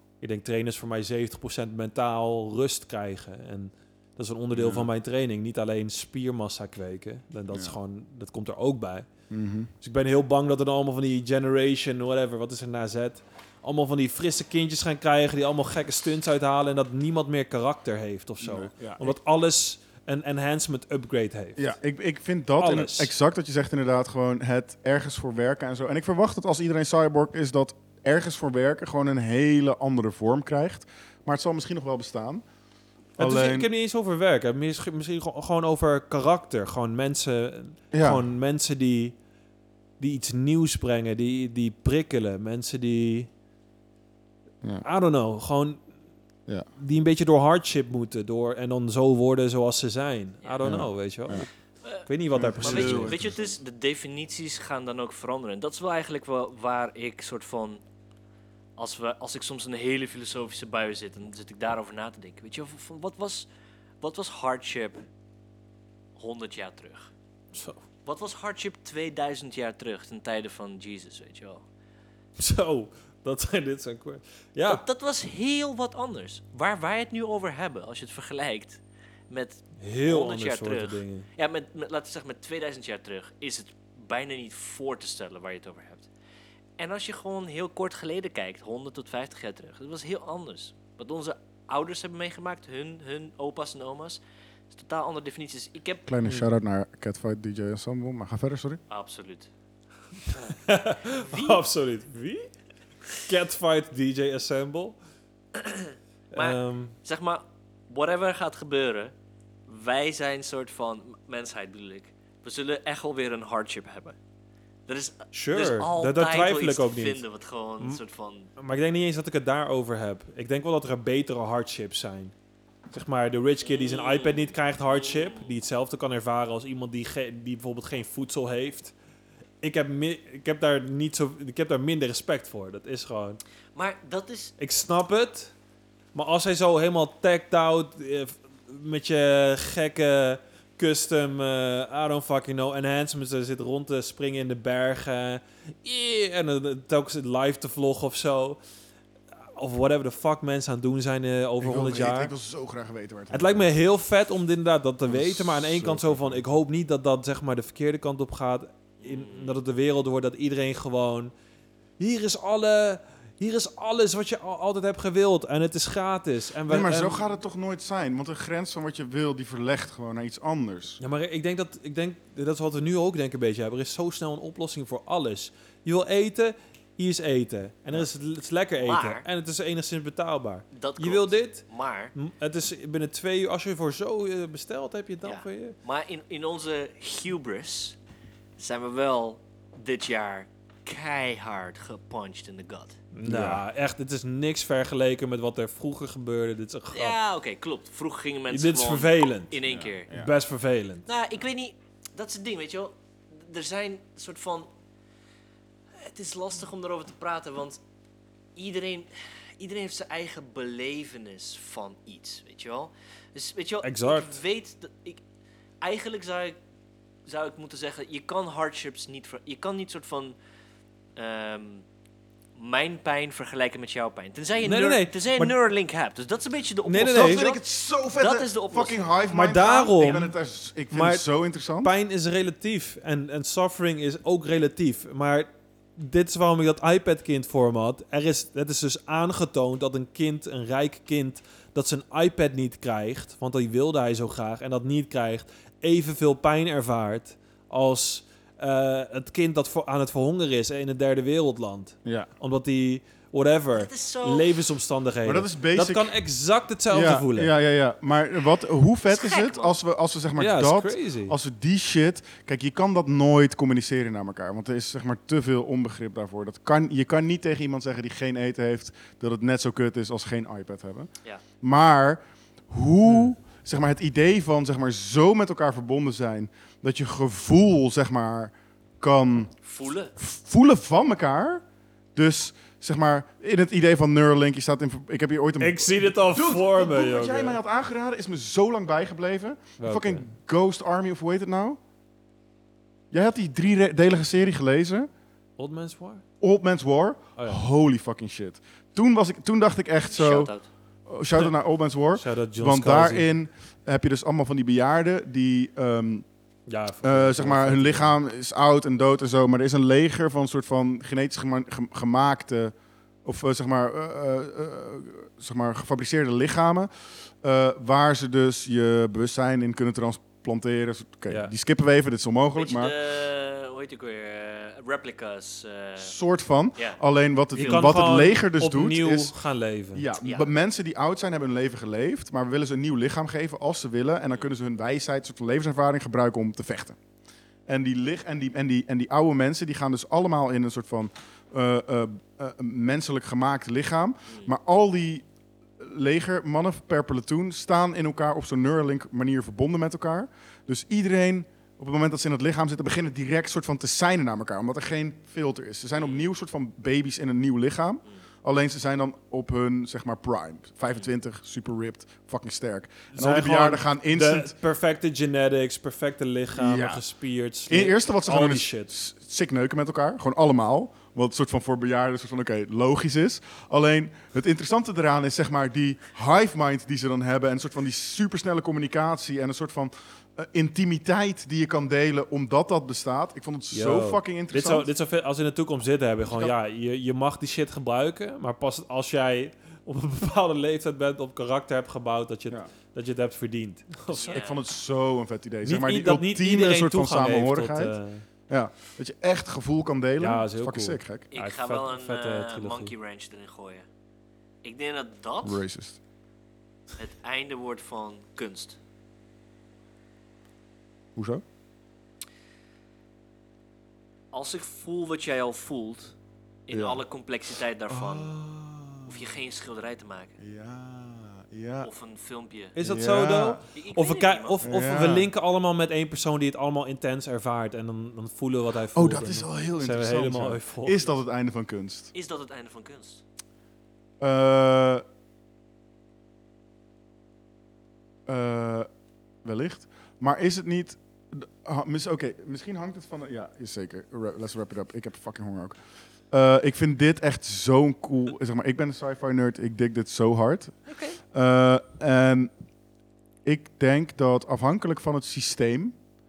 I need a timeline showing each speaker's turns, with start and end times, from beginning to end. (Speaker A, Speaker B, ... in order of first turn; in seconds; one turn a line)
Speaker A: 0.2-9.1
Speaker B: 4.5-4.9
Speaker B: 7.5-7.8
Speaker B: 9.3-9.7
Speaker A: 9.8-21.7
Speaker B: 18.4-19.1
Speaker B: 21.6-32.4
Speaker A: 22.6-23.1
Speaker B: 33.2-33.7
Speaker A: 33.2-39.1
Speaker B: 37.9-38.2
Speaker A: 40.0-43.3
Speaker A: 44.8-45.8
Speaker A: 46.8-51.5
Speaker B: 50.6-51.5
Speaker A: 52.1-53.2
Speaker B: 52.3-53.4
Speaker C: 52.6-57.8
Speaker C: 58.8-63.5
Speaker C: 64.0-65.0
Speaker C: 66.2-67.1
Speaker A: 67.5-67.8
Speaker C: 68.0-71.6
Speaker A: 72.4-74.8
Speaker C: 74.7-86.1
Speaker A: 79.8-81.3
Speaker C: 86.8-96.1
Speaker B: 96.1-98.8
Speaker A: 96.2-96.5
Speaker C: 98.9-99.5
Speaker A: 100.5-102.5
Speaker C: 101.3-101.6
Speaker A: 103.2-105.0
Speaker C: 105.5-109.1
Speaker A: 106.3-106.9
Speaker C: 109.7-114.2
Speaker C: 114.9-118.5
Speaker A: 115.3-117.2
Speaker A: 118.6-122.3
Speaker A: 122.9-128.9
Speaker C: 123.6-125.5
Speaker A: 129.6-133.4
Speaker C: 133.7-134.5
Speaker A: 134.6-135.5
Speaker A: 136.1-148.6
Speaker A: 149.6-152.3
Speaker B: 151.6-153.7
Speaker A: 153.3-161.3
Speaker B: 155.1-156.4
Speaker C: 159.0-159.6
Speaker A: 162.0-167.2
Speaker B: 166.7-171.0
Speaker A: 171.0-181.6
Speaker C: 178.8-179.2
Speaker C: 180.7-182.1
Speaker A: 182.1-185.7
Speaker C: 185.2-188.0
Speaker C: 188.6-193.0
Speaker A: 193.1-197.2
Speaker B: 193.2-193.6
Speaker C: 196.9-200.1
Speaker A: 198.5-199.6
Speaker B: 199.7-200.3
Speaker A: 200.1-201.0
Speaker C: 201.1-204.7
Speaker C: 206.0-207.8
Speaker C: 208.6-215.2
Speaker A: 213.8-214.4
Speaker C: 215.8-216.6
Speaker C: 217.3-220.3
Speaker C: 221.2-221.8
Speaker C: 222.6-229.0
Speaker A: 224.6-225.5
Speaker A: 226.8-227.4
Speaker B: 227.0-231.9
Speaker A: 229.3-230.3
Speaker A: 230.9-231.2
Speaker A: 231.8-257.5
Speaker B: 252.0-252.3
Speaker C: 253.7-254.6
Speaker B: 255.2-256.1
Speaker B: 256.9-271.1
Speaker C: 259.1-259.7
Speaker A: 260.4-261.4
Speaker B: 271.6-279.5
Speaker C: 279.6-280.1
Speaker B: 280.2-281.6
Speaker B: 282.1-291.8
Speaker A: 285.6-287.6
Speaker A: 289.8-290.3
Speaker B: 293.1-295.1
Speaker A: 295.6-296.2
Speaker B: 296.4-300.5
Speaker A: 297.4-297.6
Speaker C: 300.1-300.7
Speaker B: 301.1-306.2
Speaker A: 302.1-303.2
Speaker A: 306.7-308.1
Speaker B: 307.0-312.7
Speaker B: 313.2-316.9
Speaker B: 317.4-322.9
Speaker C: 322.5-326.1
Speaker B: 326.0-329.3
Speaker A: 327.5-330.1
Speaker C: 327.6-327.9
Speaker B: 329.9-337.0
Speaker C: 330.2-330.5
Speaker B: 337.7-345.2
Speaker B: 345.8-364.5
Speaker C: 356.0-356.2
Speaker A: 363.1-368.9
Speaker B: 366.5-367.0
Speaker B: 367.7-384.9
Speaker A: 383.7-394.4
Speaker B: 386.3-386.5
Speaker C: 394.1-394.6
Speaker B: 394.1-397.9
Speaker A: 395.6-398.2
Speaker B: 398.5-401.2
Speaker A: 400.2-402.9
Speaker C: 401.3-403.8
Speaker C: 404.6-405.6
Speaker B: 405.4-406.0
Speaker C: 407.0-408.8
Speaker B: 411.1-411.4
Speaker C: 414.3-416.1
Speaker C: 416.7-418.3
Speaker B: 416.7-417.0
Speaker B: 417.9-419.3
Speaker C: 419.1-420.4
Speaker B: 420.4-421.9
Speaker C: 421.8-422.8
Speaker A: 422.8-431.0
Speaker B: 422.8-423.6
Speaker C: 423.7-424.6
Speaker B: 424.6-425.3
Speaker B: 428.9-432.1
Speaker C: 432.1-433.2
Speaker B: 434.2-435.0
Speaker B: 438.3-438.9
Speaker B: 439.4-445.8
Speaker B: 446.3-450.7
Speaker C: 450.9-451.2
Speaker B: 451.3-452.5
Speaker B: 453.4-455.9